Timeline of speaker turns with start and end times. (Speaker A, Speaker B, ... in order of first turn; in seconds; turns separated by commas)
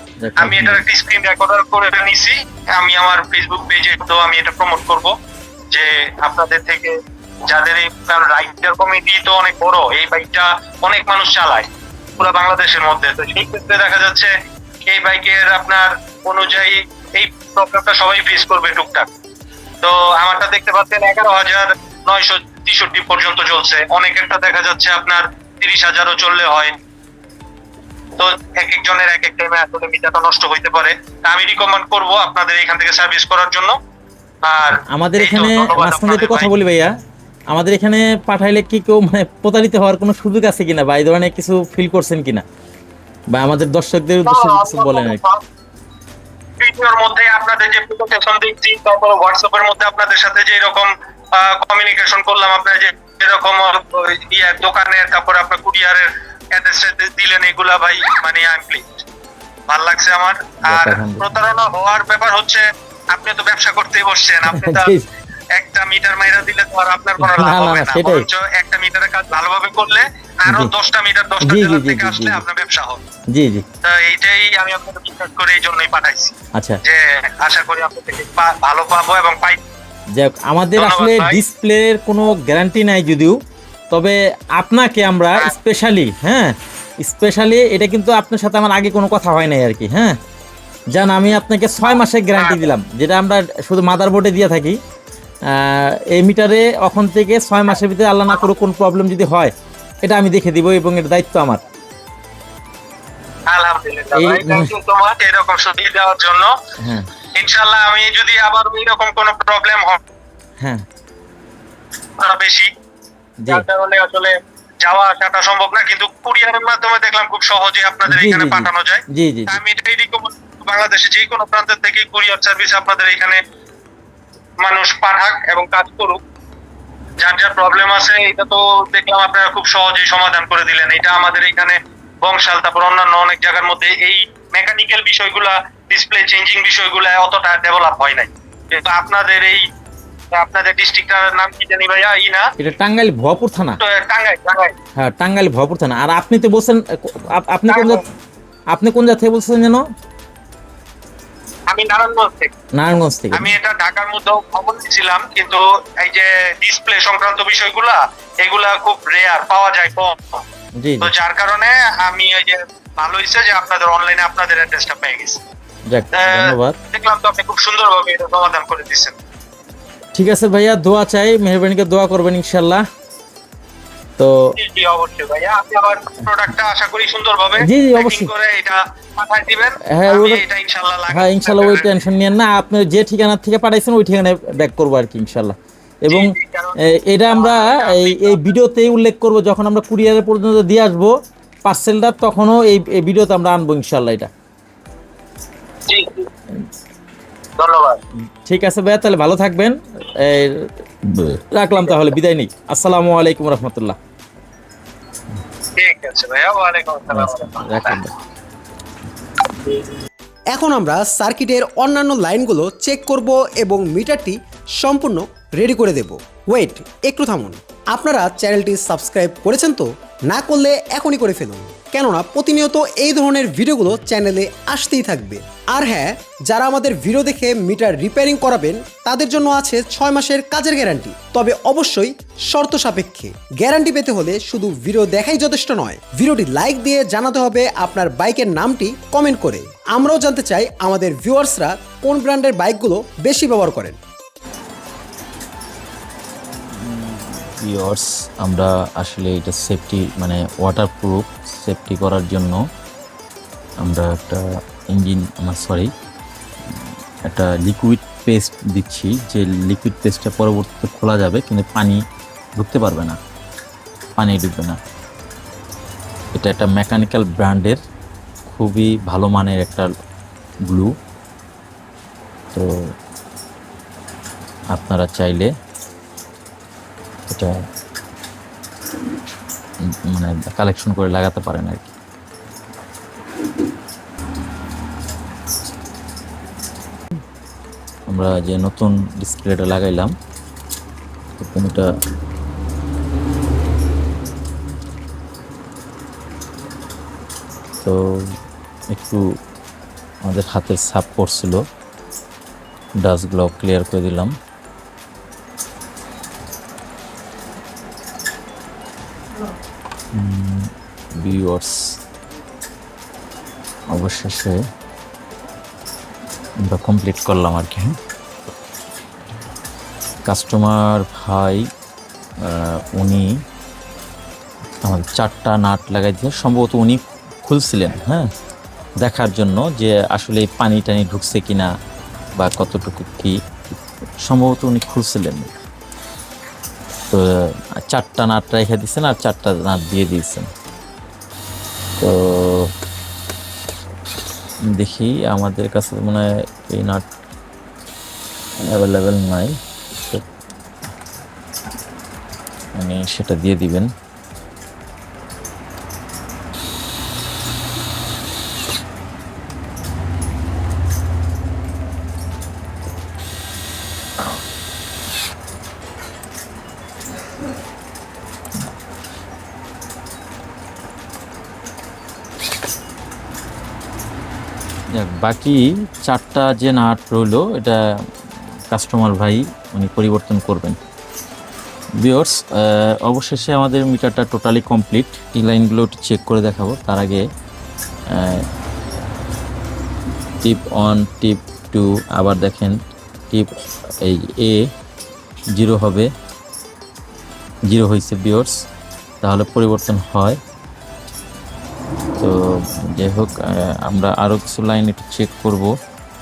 Speaker A: 0.2-0.8, Speaker B: 0.4-5.1, Speaker B: 5.7-6.9, Speaker B: 7.5-11.7, Speaker B: 12.2-14.3, Speaker B: 14.8-19.1, Speaker B: 19.8-26.7, Speaker B: 28.2-33.8, Speaker B: 34.4-36.5, Speaker A: 34.9-36.9, Speaker A: 37.5-42.4, Speaker A: 43.3-45.2, Speaker B: 44.2-45.4, Speaker B: 46.6-59.0, Speaker B: 59.7-64.9, Speaker A: 60.6-61.2, Speaker A: 64.5-65.0, Speaker B: 65.5-73.0, Speaker A: 67.2-68.2, Speaker A: 71.4-72.4, Speaker A: 73.3-73.6, Speaker B: 73.8-76.3, Speaker B: 76.8-79.6, Speaker A: 80.1-83.4, Speaker B: 80.8-81.4, Speaker A: 83.9-90.2, Speaker A: 90.9-94.8, Speaker B: 92.4-92.6, Speaker A: 95.5-101.6, Speaker B: 103.5-106.5, Speaker A: 104.2-104.7, Speaker A: 106.8-107.1, Speaker B: 107.3-110.0, Speaker B: 112.2-112.7, Speaker B: 113.5-123.4, Speaker A: 118.1-119.6, Speaker B: 124.6-126.2, Speaker B: 127.2-139.7, Speaker B: 140.3-142.5, Speaker A: 142.6-143.8, Speaker B: 143.8-144.7, Speaker A: 144.9-148.0, Speaker B: 147.7-148.0, Speaker A: 148.7-149.8, Speaker B: 151.7-152.5, Speaker A: 152.7-153.5, Speaker B: 153.3-160.4, Speaker A: 160.8-161.1, Speaker B: 161.0-165.4, Speaker A: 165.9-166.8, Speaker B: 166.1-169.2, Speaker A: 170.1-172.8, Speaker B: 174.6-182.0, Speaker A: 177.6-178.3, Speaker A: 179.9-180.4, Speaker A: 181.1-186.3, Speaker B: 186.1-186.7, Speaker A: 186.9-191.1, Speaker B: 187.3-188.5, Speaker A: 191.6-194.3, Speaker B: 195.9-196.3, Speaker B: 197.6-198.0, Speaker A: 198.4-204.0, Speaker B: 205.8-208.0, Speaker A: 207.1-208.1, Speaker C: 210.5-244.0, Speaker A: 246.7-252.6, Speaker A: 253.8-255.9, Speaker A: 256.7-262.0, Speaker A: 262.6-263.2, Speaker A: 264.2-264.8, Speaker A: 266.3-267.8, Speaker A: 268.5-269.9, Speaker A: 270.7-270.9, Speaker A: 274.7-275.5, Speaker A: 277.3-277.6, Speaker A: 279.9-281.9, Speaker A: 288.1-290.1, Speaker A: 291.4-291.8, Speaker A: 297.8-298.3, Speaker A: 298.9-299.2, Speaker A: 300.2-301.6, Speaker A: 303.0-304.3, Speaker A: 310.1-311.9, Speaker A: 313.9-314.6, Speaker A: 316.7-317.9, Speaker A: 320.2-321.7, Speaker A: 322.4-323.3, Speaker A: 324.8-328.3, Speaker A: 329.0-331.7, Speaker A: 332.4-333.4, Speaker A: 334.2-335.5, Speaker A: 337.1-340.5, Speaker A: 342.0-342.7, Speaker A: 344.7-347.0, Speaker A: 348.6-350.2, Speaker A: 352.8-353.9, Speaker A: 374.9-377.8, Speaker A: 378.7-380.8, Speaker A: 382.0-387.2, Speaker A: 388.1-388.4, Speaker A: 390.4-393.5, Speaker A: 394.0-394.7, Speaker A: 395.5-396.1, Speaker A: 397.7-398.6, Speaker A: 399.2-400.4, Speaker A: 403.0-405.7